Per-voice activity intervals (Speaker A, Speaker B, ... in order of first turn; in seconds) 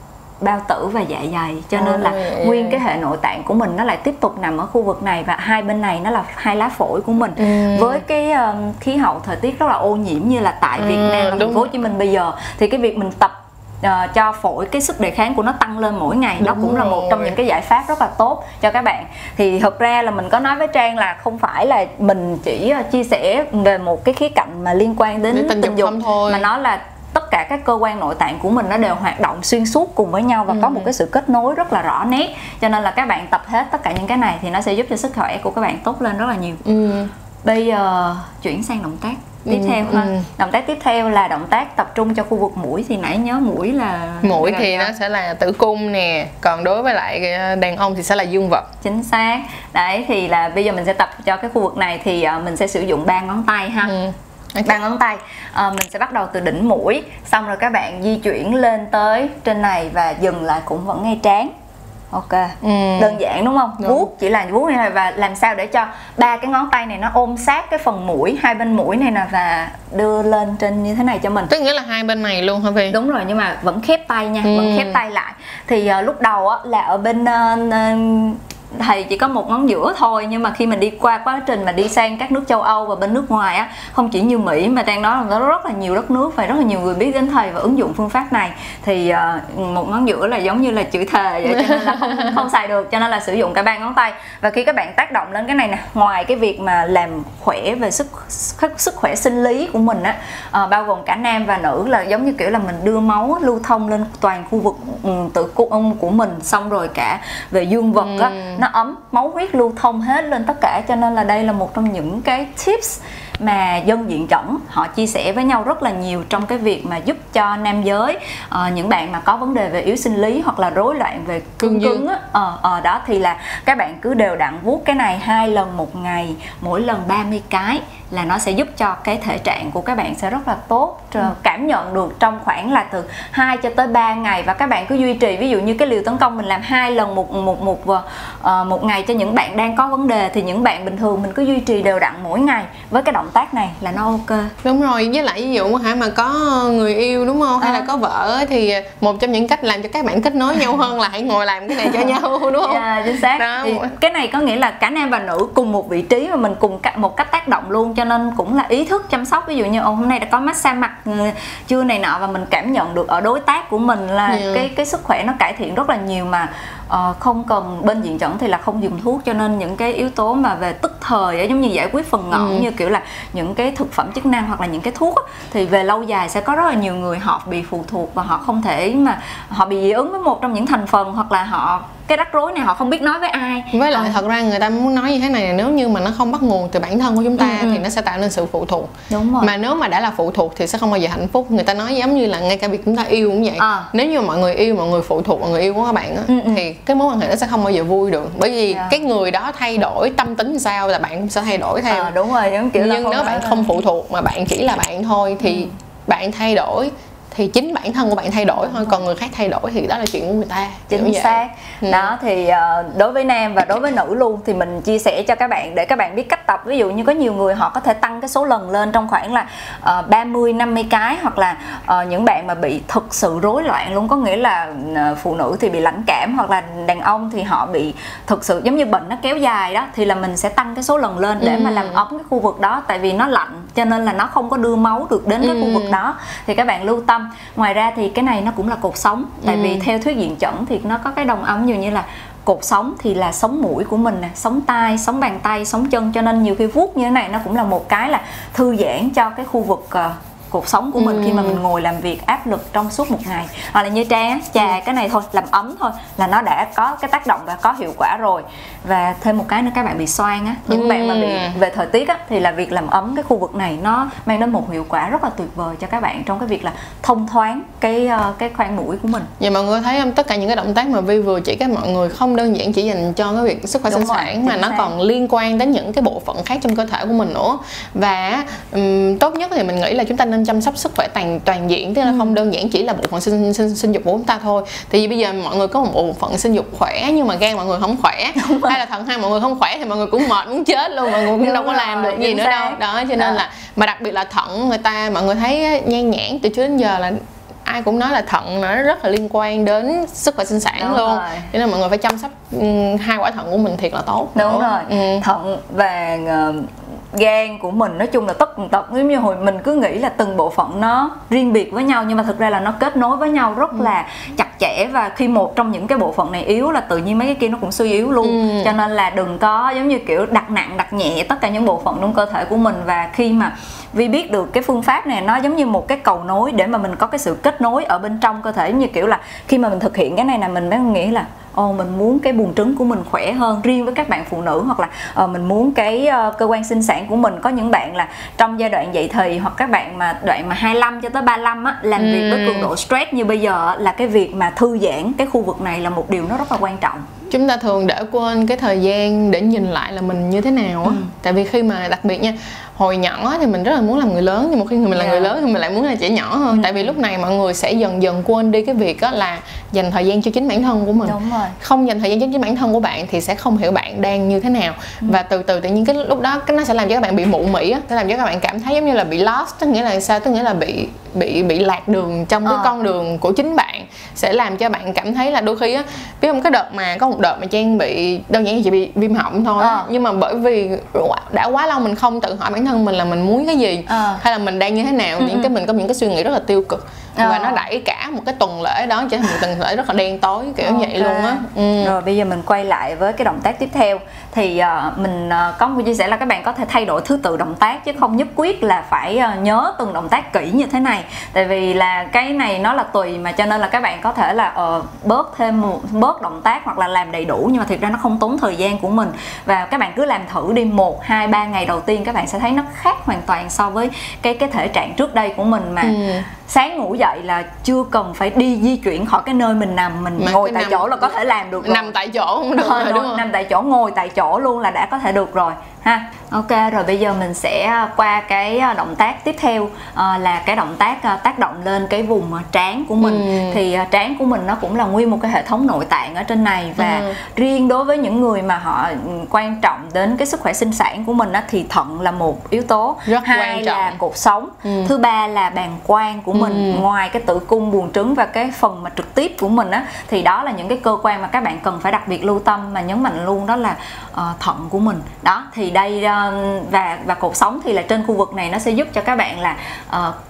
Speaker A: 0.4-36.6, 37.5-44.9, 48.8-54.0, 54.6-61.5, 62.1-71.5, 72.9-144.5, 147.6-147.9, 152.6-184.2, 187.4-187.8, 189.1-189.5, 193.6-193.9, 196.3-196.7, 198.7-199.0, 201.9-203.7, 205.4-205.7, 208.7-208.9, 210.9-269.3, 273.9-274.9, 282.1-282.3, 288.4-288.8, 291.2-293.4, 300.8-301.5, 304.4-347.1, 350.9-351.1, 354.9-355.3, 356.5-357.0, 361.1-361.6, 372.4-372.7, 379.6-379.9, 383.9-384.2, 385.2-385.5, 387.2-387.6, 390.6-421.9, 422.6-460.2
Speaker B: 1.8-2.8, 7.4-8.0, 10.8-11.7, 16.4-17.4, 25.3-26.5, 30.5-30.9, 36.6-37.1, 39.5-40.2, 44.2-48.7, 53.9-54.8, 62.6-63.2, 63.8-64.1, 71.5-73.0, 74.4-75.0, 91.5-92.4, 108.0-108.6, 121.6-122.0, 144.6-153.9, 164.3-164.7, 172.3-172.7, 183.7-202.1, 202.7-212.1, 231.4-232.0, 235.4-236.0, 239.4-239.9, 251.0-251.6, 260.7-261.6, 269.4-305.2, 318.2-318.7, 342.0-342.7, 347.3-391.9, 415.8-416.2, 420.2-423.2, 433.0-433.6, 436.8-437.1, 443.1-444.0, 444.6-444.9, 446.3-446.9